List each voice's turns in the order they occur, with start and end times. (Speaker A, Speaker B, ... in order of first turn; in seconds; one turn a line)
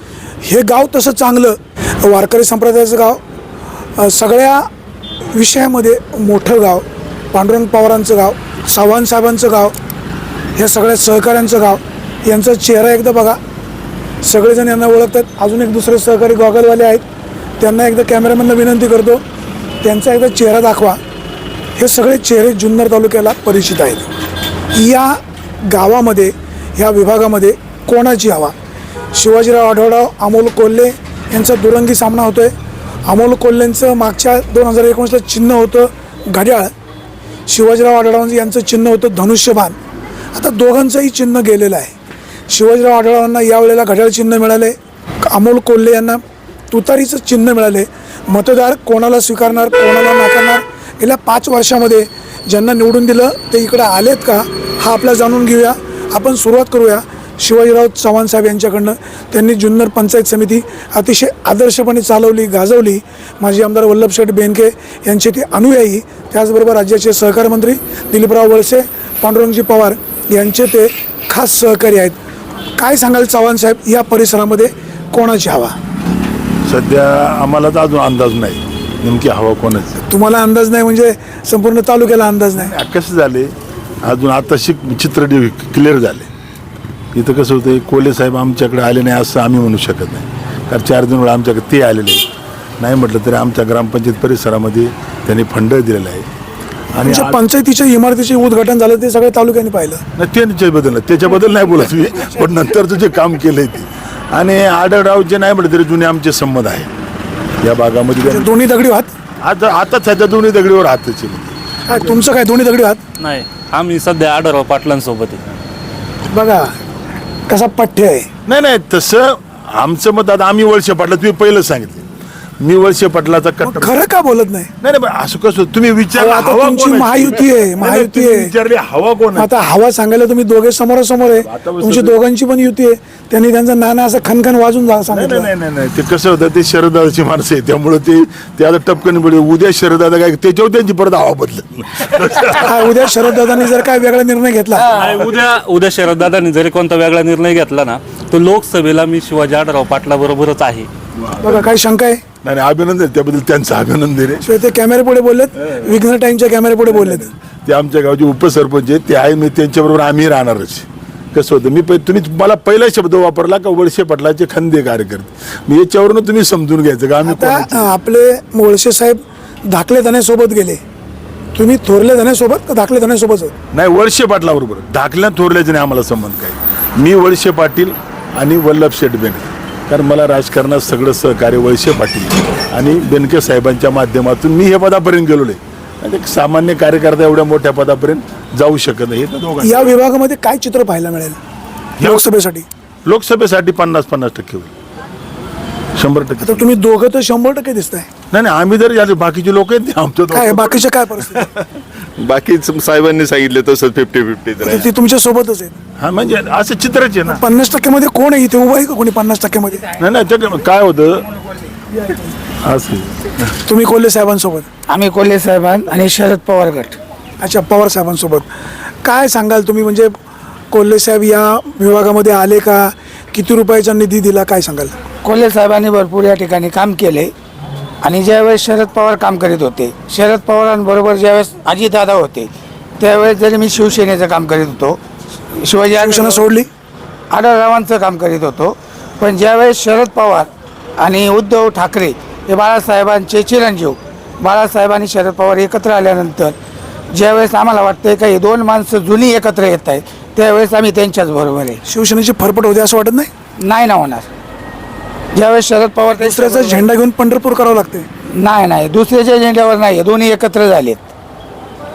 Speaker A: 0.5-3.2
Speaker A: 4.0-4.7
Speaker A: 5.3-9.7
Speaker A: 10.6-13.4
Speaker A: 14.2-17.0
Speaker A: 17.6-19.2
Speaker A: 19.8-21.0
Speaker A: 21.8-24.1
Speaker A: 24.8-28.5
Speaker A: 29.2-32.5
Speaker A: 33.1-36.7
Speaker A: 37.5-39.8
Speaker A: 40.3-41.9
Speaker A: 42.5-72.2
Speaker A: 72.8-75.7
Speaker B: 76.7-80.0
Speaker A: 80.1-82.7
Speaker B: 82.5-83.5
Speaker B: 84.0-86.3
Speaker B: 87.1-92.2
Speaker B: 92.8-96.3
Speaker B: 96.9-97.4
Speaker A: 97.0-100.0
Speaker B: 100.2-106.9
Speaker B: 107.6-108.5
Speaker A: 108.2-109.1
Speaker B: 109.4-111.5
Speaker A: 111.9-113.0
Speaker C: 113.2-115.4
Speaker A: 116.3-116.7
Speaker A: 117.5-118.3
Speaker B: 118.5-122.0
Speaker B: 122.6-124.0
Speaker A: 123.7-124.7
Speaker B: 124.8-129.5
Speaker A: 126.1-128.5
Speaker A: 129.3-135.5
Speaker B: 131.4-132.2
Speaker B: 135.1-142.9
Speaker A: 142.5-144.9
Speaker C: 144.9-150.9
Speaker B: 151.2-151.7
Speaker A: 151.4-152.2
Speaker B: 152.4-154.4
Speaker A: 154.4-157.3
Speaker B: 156.9-167.9
Speaker A: 167.2-170.8
Speaker A: 171.5-173.5
Speaker B: 173.7-189.9
Speaker A: 189.6-191.4
Speaker B: 192.0-192.2
Speaker A: 192.0-192.7
Speaker B: 193.0-194.7
Speaker B: 195.9-196.7
Speaker A: 196.4-198.1
Speaker B: 198.3-201.4
Speaker A: 200.3-201.5
Speaker D: 202.2-204.9
Speaker A: 204.6-205.8
Speaker B: 206.0-207.4
Speaker A: 207.3-209.8
Speaker B: 210.0-211.2
Speaker B: 212.6-213.3
Speaker A: 213.6-214.7
Speaker E: 214.9-217.0
Speaker A: 217.4-218.5
Speaker A: 219.0-220.1
Speaker A: 220.7-224.9
Speaker E: 225.2-227.3
Speaker E: 228.0-235.0
Speaker E: 235.6-236.4
Speaker A: 235.9-236.7
Speaker E: 237.3-246.6
Speaker E: 247.1-251.8
Speaker A: 251.9-253.3
Speaker E: 253.6-254.3
Speaker E: 255.3-256.9
Speaker A: 256.1-258.1
Speaker E: 258.4-261.1